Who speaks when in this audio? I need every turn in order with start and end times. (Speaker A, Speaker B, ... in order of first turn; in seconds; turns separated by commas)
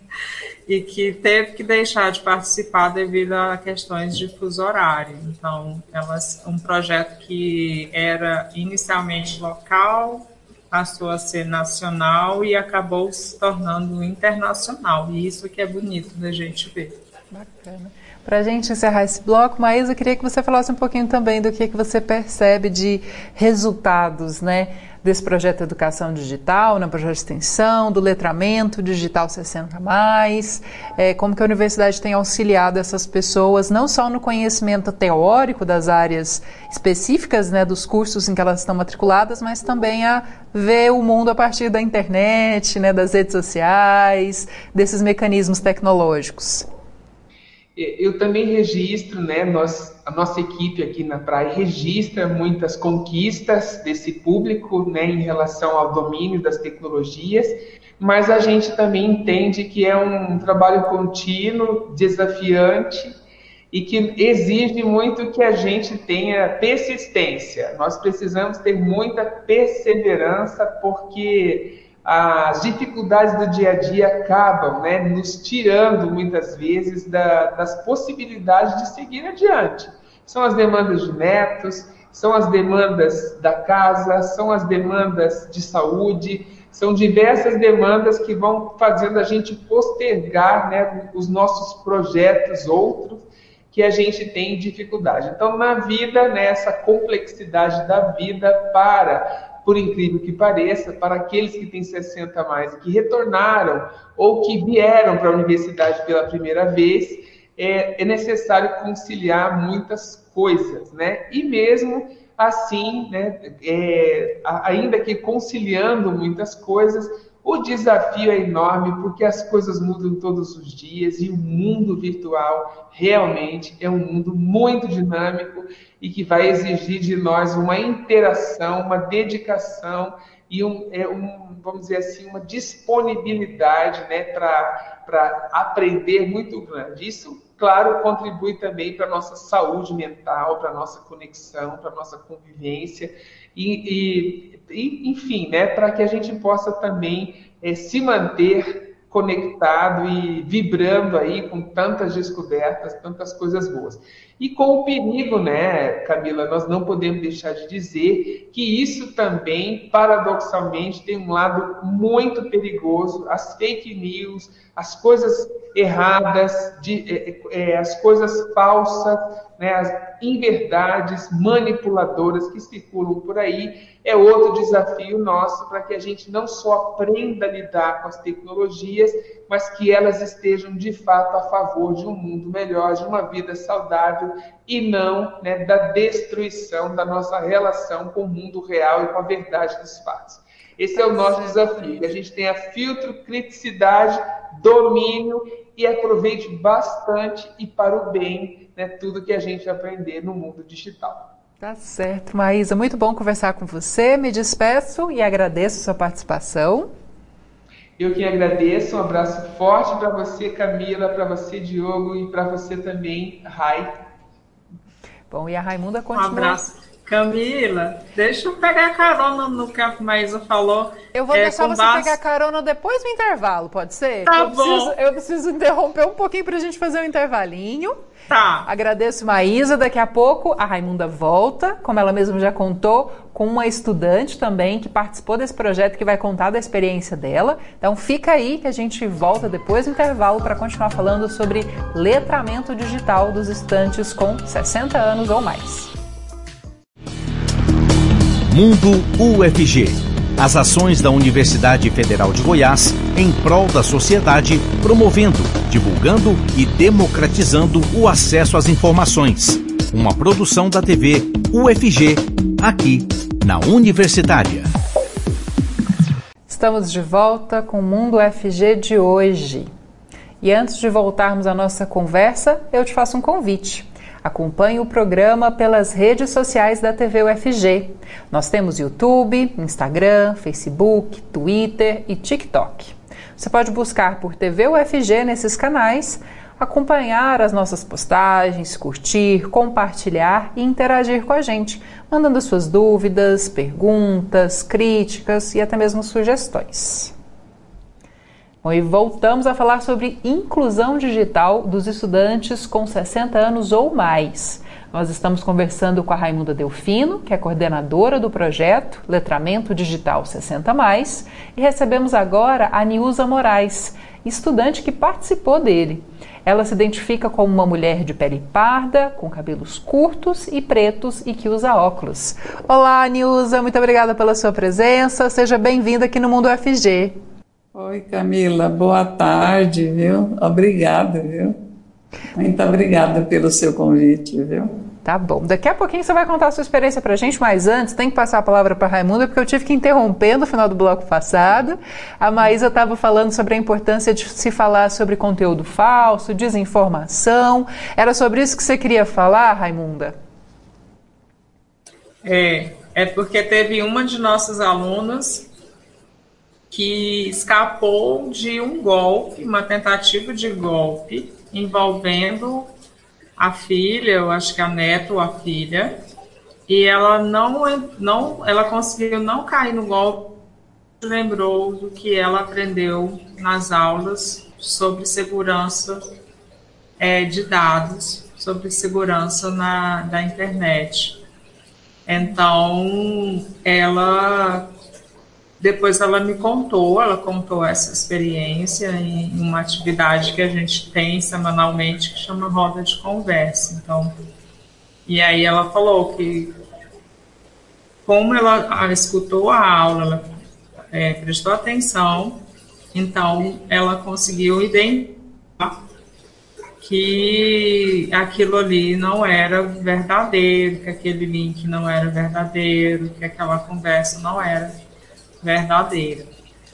Speaker A: 0.7-16.9, Speaker B: 17.3-46.7, Speaker C: 47.8-63.1, Speaker C: 63.7-201.3, Speaker B: 191.0-192.0, Speaker B: 201.6-206.9, Speaker C: 208.0-214.0, Speaker B: 215.3-216.6, Speaker A: 216.2-222.2, Speaker B: 221.1-228.0, Speaker A: 224.3-224.9, Speaker A: 228.3-228.7, Speaker B: 228.7-245.9, Speaker D: 248.5-264.7, Speaker B: 266.5-269.7, Speaker B: 270.4-297.1, Speaker B: 298.6-327.2, Speaker E: 327.8-331.6, Speaker E: 332.4-334.7, Speaker B: 335.0-350.2, Speaker A: 352.2-355.5, Speaker A: 356.7-362.7, Speaker A: 363.4-365.9, Speaker A: 366.7-370.3, Speaker A: 371.0-376.0, Speaker A: 377.0-381.2, Speaker A: 382.1-384.7, Speaker A: 385.6-394.1, Speaker A: 395.1-396.5, Speaker A: 398.1-400.2, Speaker A: 400.9-402.4, Speaker A: 402.9-405.8, Speaker A: 406.8-414.7, Speaker A: 415.4-416.3